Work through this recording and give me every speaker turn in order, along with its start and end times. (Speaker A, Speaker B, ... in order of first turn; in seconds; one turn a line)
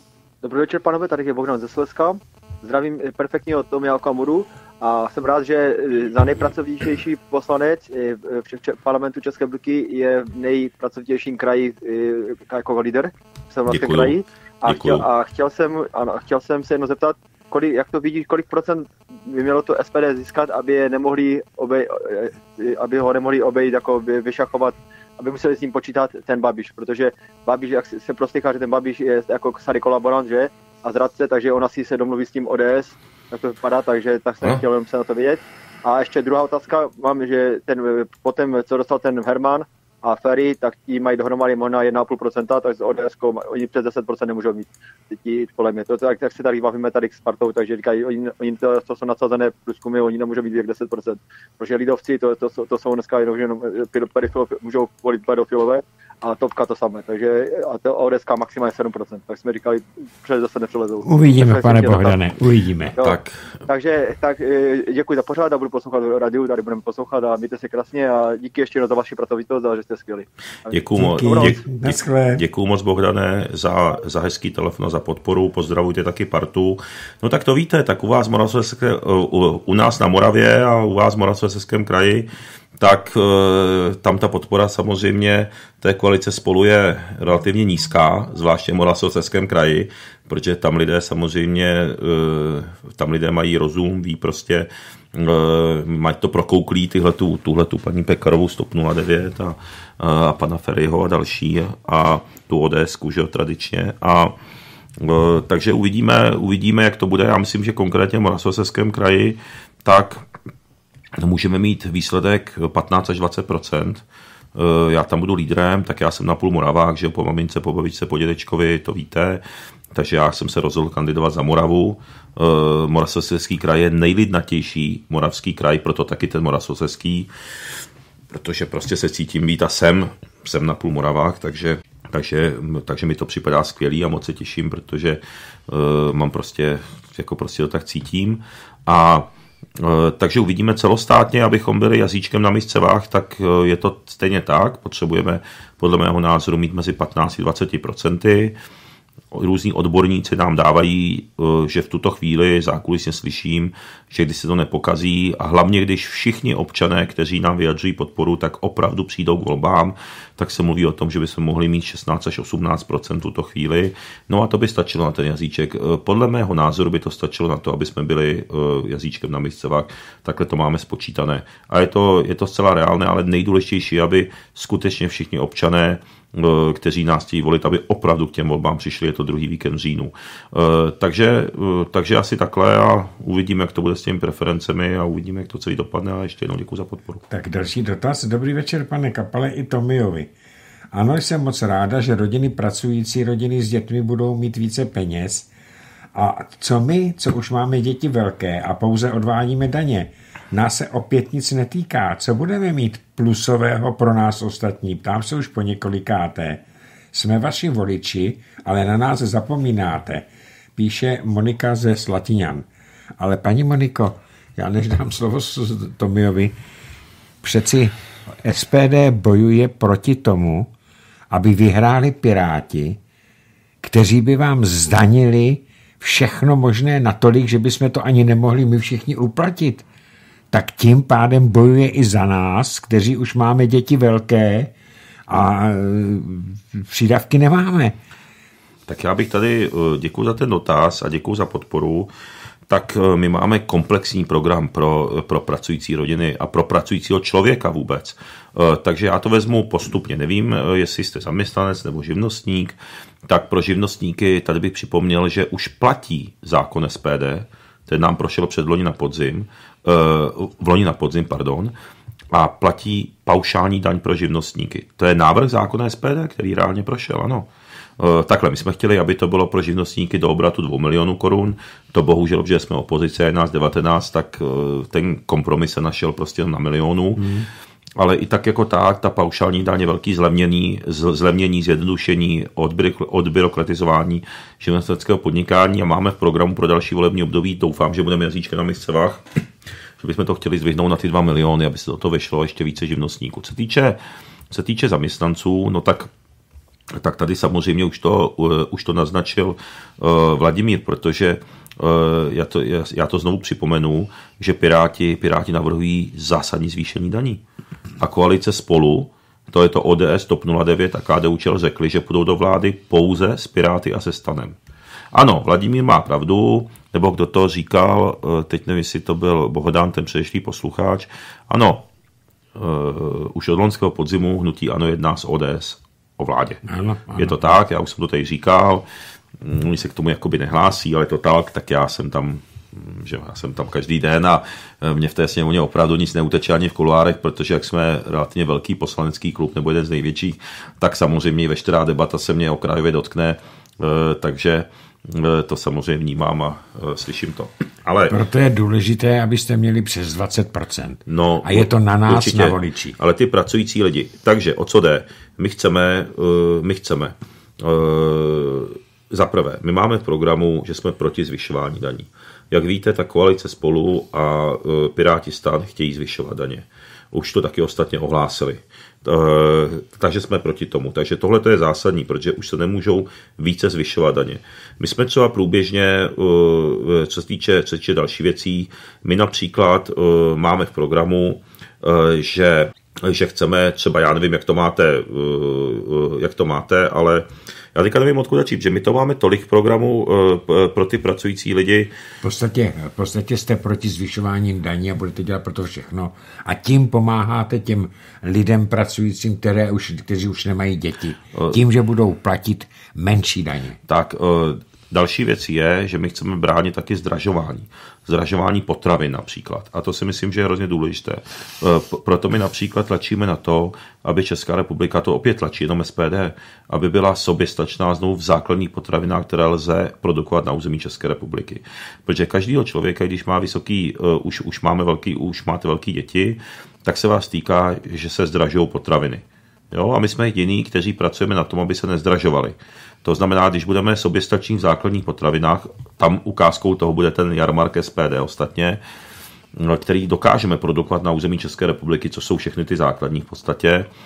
Speaker A: 0.4-62.2
Speaker B: 13.7-14.1
Speaker B: 14.7-15.0
Speaker C: 61.0-63.0
Speaker A: 63.0-71.5
Speaker B: 63.0-63.4
Speaker B: 70.7-104.3
Speaker C: 70.9-72.4
Speaker B: 105.0-110.2
Speaker B: 111.1-114.0
Speaker B: 114.5-119.4
Speaker B: 119.9-127.3
Speaker B: 128.3-139.2
Speaker B: 139.8-148.5
Speaker B: 149.3-187.2
Speaker C: 187.3-190.3
Speaker C: 190.9-195.5
Speaker C: 196.1-212.7
Speaker C: 213.2-216.5
Speaker C: 217.4-220.7
Speaker C: 221.3-223.0
Speaker C: 223.8-229.8
Speaker C: 230.5-234.7
Speaker C: 235.3-237.9
Speaker B: 238.9-242.1
Speaker B: 242.7-261.7
Speaker B: 262.3-267.5
Speaker B: 268.0-277.3
Speaker C: 277.2-277.5
Speaker B: 278.0-289.2
Speaker B: 290.0-294.0
Speaker B: 294.5-296.1
Speaker B: 296.9-307.4
Speaker B: 308.0-314.6
Speaker B: 315.1-321.8
Speaker B: 322.5-326.6
Speaker C: 326.6-327.4
Speaker B: 327.1-328.8
Speaker B: 329.4-348.2
Speaker C: 348.1-353.0
Speaker B: 351.1-391.9
Speaker C: 392.2-403.8
Speaker B: 403.9-438.8
Speaker B: 439.5-443.9